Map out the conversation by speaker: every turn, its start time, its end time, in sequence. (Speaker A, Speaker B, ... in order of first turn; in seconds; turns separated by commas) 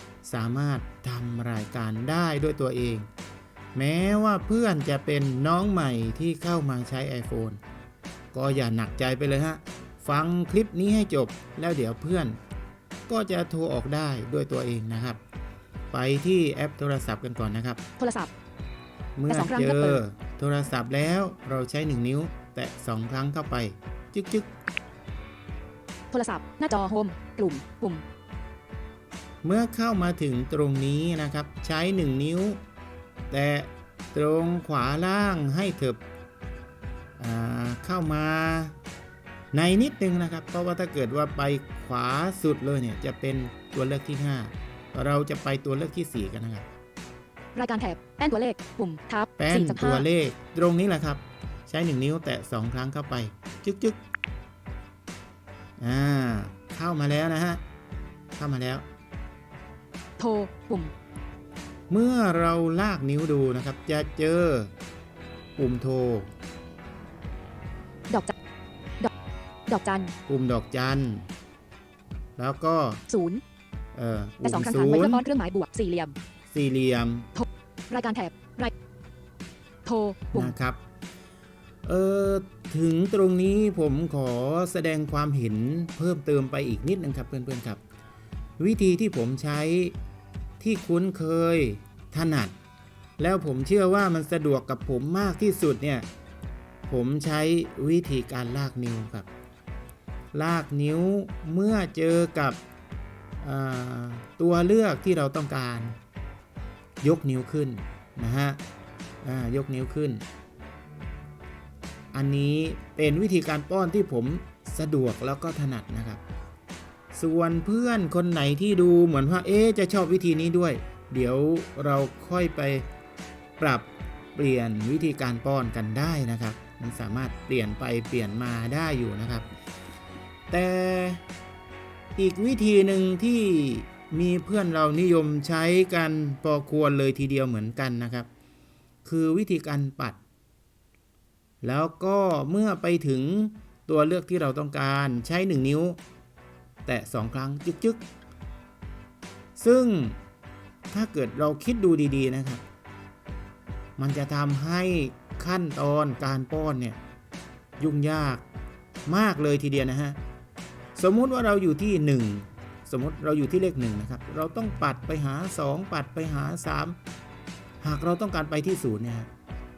Speaker A: 0.2-3.1, Speaker A: 3.8-7.6, Speaker A: 8.3-12.4, Speaker A: 13.1-15.2, Speaker A: 15.9-17.8, Speaker B: 18.0-18.3, Speaker A: 19.2-24.5, Speaker B: 19.3-20.0, Speaker B: 26.1-28.0, Speaker A: 29.4-32.6, Speaker A: 33.3-36.0, Speaker A: 37.2-38.8, Speaker A: 39.5-46.7, Speaker B: 47.5-50.1, Speaker A: 49.4-54.0, Speaker A: 55.8-57.6, Speaker A: 58.4-58.8, Speaker B: 60.2-60.9, Speaker A: 61.9-64.7, Speaker A: 65.6-66.3, Speaker B: 69.7-70.1, Speaker A: 70.3-71.2, Speaker A: 72.4-73.0, Speaker B: 73.1-73.4, Speaker A: 73.9-75.2, Speaker B: 74.4-76.2, Speaker A: 76.5-77.3, Speaker B: 77.3-78.7, Speaker B: 79.8-80.5, Speaker A: 80.3-80.8, Speaker A: 81.9-87.8, Speaker A: 88.6-90.0, Speaker A: 90.6-92.5, Speaker A: 93.2-96.1, Speaker A: 96.9-99.3, Speaker A: 100.3-102.6, Speaker A: 103.4-105.9, Speaker A: 107.0-108.6, Speaker A: 109.2-110.2, Speaker A: 112.1-116.2, Speaker A: 117.1-122.9, Speaker A: 123.6-129.5, Speaker A: 130.5-131.2, Speaker A: 132.2-138.3, Speaker A: 139.1-140.2, Speaker A: 141.6-146.0, Speaker A: 146.9-148.0, Speaker A: 149.6-150.2, Speaker A: 150.9-152.6, Speaker A: 154.0-157.0, Speaker A: 157.8-158.4, Speaker A: 159.1-160.2, Speaker A: 161.0-167.0, Speaker A: 167.8-169.3